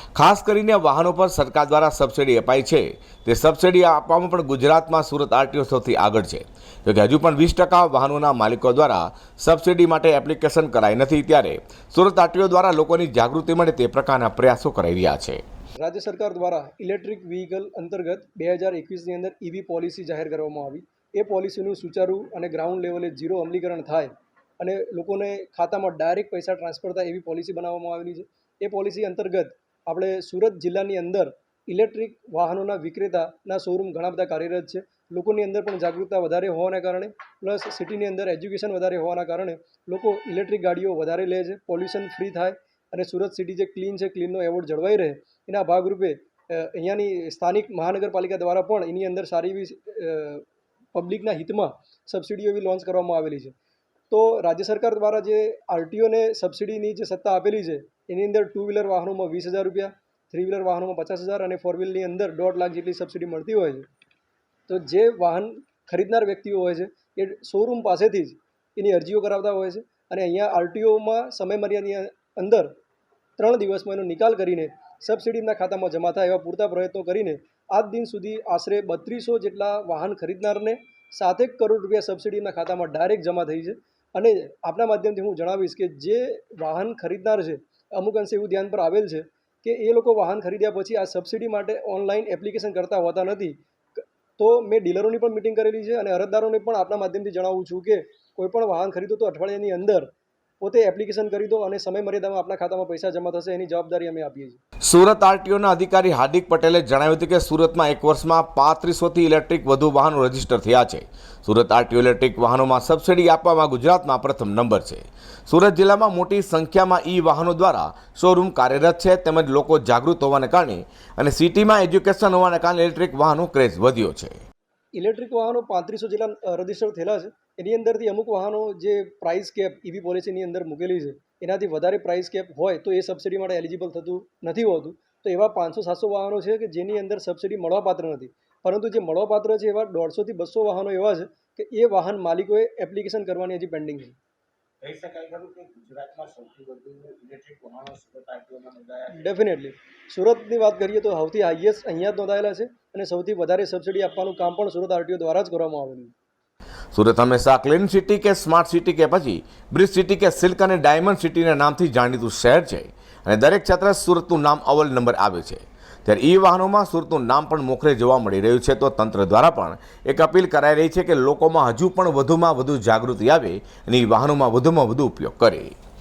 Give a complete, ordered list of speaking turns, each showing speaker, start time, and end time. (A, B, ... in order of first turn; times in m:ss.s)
0:00.1-0:15.4 A
0:15.8-0:53.5 B
0:54.1-1:03.9 B
1:04.7-1:12.7 B
1:13.4-1:40.1 B
1:40.6-1:44.6 B
1:44.8-2:04.4 A
2:05.0-2:24.2 B
2:24.8-2:29.2 C
2:29.1-2:36.1 B
2:36.9-2:55.7 A